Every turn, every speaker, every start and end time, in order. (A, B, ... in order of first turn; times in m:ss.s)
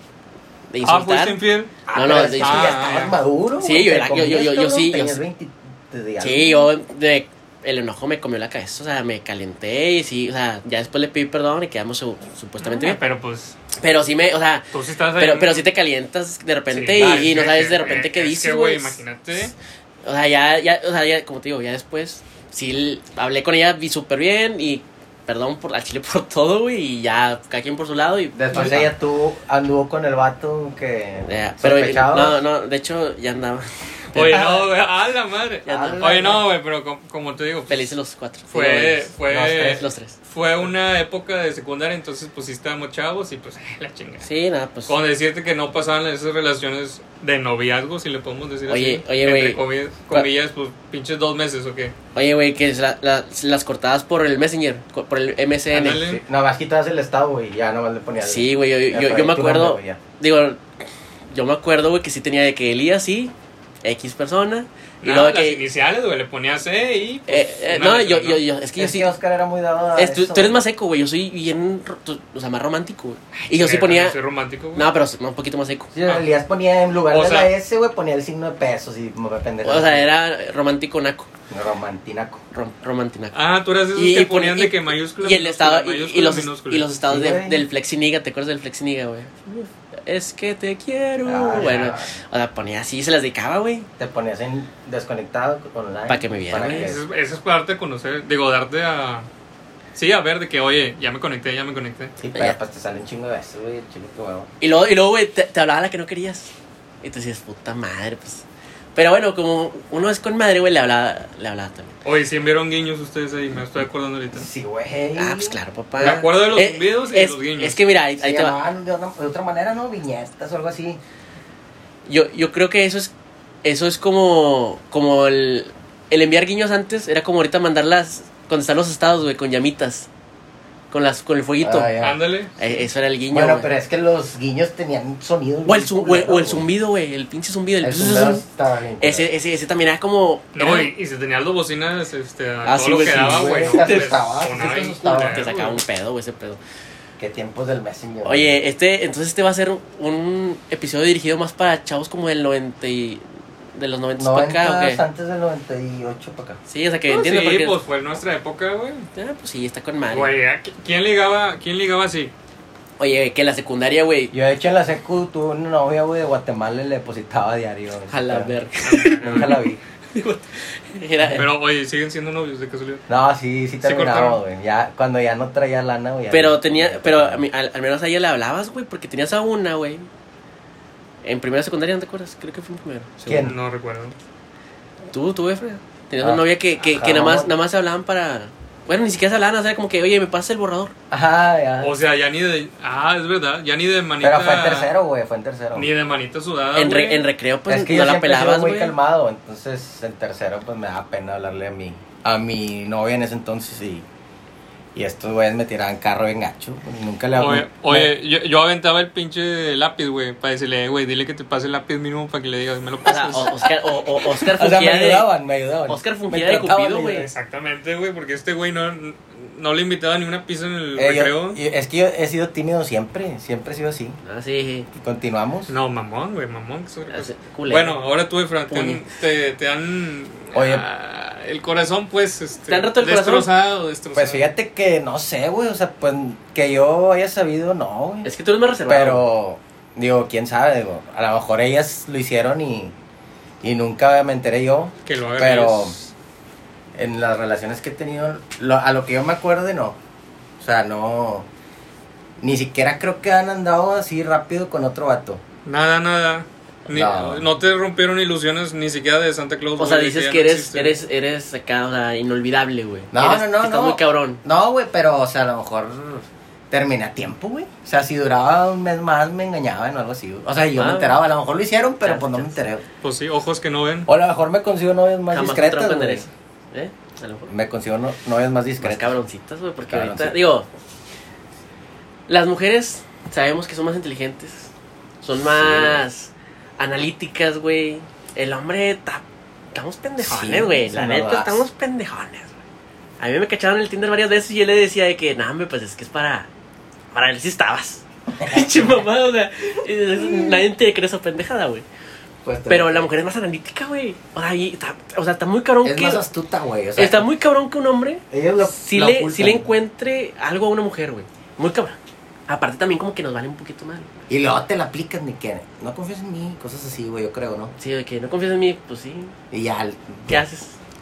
0:00.7-0:01.4 A
0:00.8-0:01.8 B
0:01.9-0:06.7 C
0:01.9-0:02.8 A
0:02.4-0:03.2 B
0:03.6-0:05.2 A
0:06.2-0:13.0 A
0:12.6-0:13.6 B
0:13.8-0:19.0 A
0:14.7-0:15.7 B
0:16.7-0:19.5 B
0:17.0-0:17.2 C
0:20.0-0:28.9 A
0:28.4-0:32.4 C
0:31.2-0:34.4 A
0:34.1-0:37.9 B
0:34.2-0:34.7 C
0:35.7-0:36.1 A
0:35.7-0:36.4 C
0:37.7-0:40.2 A
0:38.5-0:44.3 B
0:39.3-0:39.8 C
0:44.2-0:45.0 A
0:44.9-0:51.9 B
0:48.7-0:50.3 A
0:52.2-0:56.0 A
0:55.7-0:56.2 B
0:55.9-1:00.0 C
0:58.2-1:00.6 A
1:01.3-1:03.3 A
1:03.8-1:05.6 A
1:05.0-1:08.4 B
1:07.3-1:09.1 A
1:08.8-1:10.6 C
1:10.0-1:14.2 A
1:13.5-1:14.9 B
1:14.8-1:15.9 A
1:15.9-1:20.1 C
1:17.1-1:17.5 B
1:19.6-1:21.3 A
1:21.5-1:22.4 C
1:22.5-1:23.4 A
1:23.3-1:26.9 B
1:24.0-1:33.9 A
1:27.1-1:27.7 C
1:31.2-1:32.2 C
1:31.6-1:31.9 B
1:34.0-1:37.0 C
1:36.1-1:36.9 A
1:36.5-1:39.3 B
1:40.0-1:42.1 B
1:42.2-1:44.5 C
1:44.6-1:46.5 A
1:47.0-1:48.4 A
1:49.0-1:52.0 A
1:52.0-1:54.5 B
1:54.3-1:56.2 C
1:55.2-1:58.6 A
1:56.0-1:57.8 B
1:58.2-2:01.0 C
2:02.1-2:03.1 A
2:03.6-2:10.1 A
2:10.9-2:11.9 A
2:11.6-2:12.2 C
2:12.0-2:12.7 B
2:12.6-2:13.7 A
2:13.3-2:16.7 C
2:15.7-2:18.4 A
2:17.8-2:19.3 C
2:19.0-2:20.9 A
2:20.6-2:25.8 B
2:22.6-2:24.1 A
2:23.0-2:25.5 C
2:25.3-2:26.6 A
2:27.2-2:28.6 C
2:28.2-2:33.2 A
2:33.8-2:35.0 A
2:34.2-2:36.6 C
2:36.7-2:37.8 A
2:37.1-2:39.1 B
2:39.2-2:40.4 A
2:40.1-2:42.3 B
2:43.0-2:44.3 A
2:44.3-2:48.5 C
2:48.1-2:51.5 A
2:48.8-2:49.6 B
2:49.2-2:49.8 C
2:51.3-2:53.0 B
2:53.1-2:57.4 C
2:53.8-2:54.4 B
2:56.3-3:00.1 A
3:01.2-3:03.5 A
3:03.2-3:03.6 C
3:03.3-3:04.2 B
3:05.1-3:10.9 A
3:06.2-3:07.5 C
3:11.1-3:12.0 C
3:11.8-3:14.9 B
3:14.2-3:15.9 C
3:15.8-3:17.3 B
3:16.7-3:18.9 A
3:17.7-3:24.1 C
3:25.0-3:28.1 C
3:27.4-3:33.5 B
3:33.1-3:35.3 A
3:34.3-3:37.3 C
3:35.9-3:37.3 A
3:37.1-3:41.6 B
3:41.0-3:44.2 C
3:44.2-3:44.9 A
3:45.0-3:45.7 C
3:45.7-3:54.5 B
3:47.1-3:48.0 A
3:48.7-3:49.0 A
3:50.5-3:50.9 C
3:52.7-3:53.5 A
3:54.2-3:58.3 C
3:58.2-3:59.3 A
3:58.9-4:03.0 C
4:03.6-4:06.0 C
4:05.1-4:06.1 B
4:07.0-4:10.0 C
4:10.6-4:11.5 C
4:12.4-4:15.4 C
4:15.7-4:21.0 B
4:16.9-4:17.5 C
4:19.8-4:24.4 A
4:23.1-4:32.8 C
4:30.8-4:31.2 A
4:32.0-4:32.6 A
4:33.0-4:34.1 B
4:34.1-4:36.3 C
4:35.3-4:37.5 A
4:37.5-4:39.2 C
4:38.8-4:40.7 A
4:39.8-4:40.4 C
4:42.3-4:44.7 A
4:45.2-4:52.6 A
4:45.5-4:46.0 C
4:50.2-4:51.7 C
4:53.2-4:56.5 A
4:57.1-5:01.8 A
4:58.4-4:59.0 C
5:00.2-5:00.6 C
5:02.4-5:03.1 C
5:02.7-5:06.2 A
5:05.8-5:07.3 C
5:07.0-5:14.1 A
5:08.3-5:09.7 C
5:14.3-5:17.7 C
5:17.8-5:19.4 A
5:19.5-5:20.4 C
5:20.3-5:20.8 A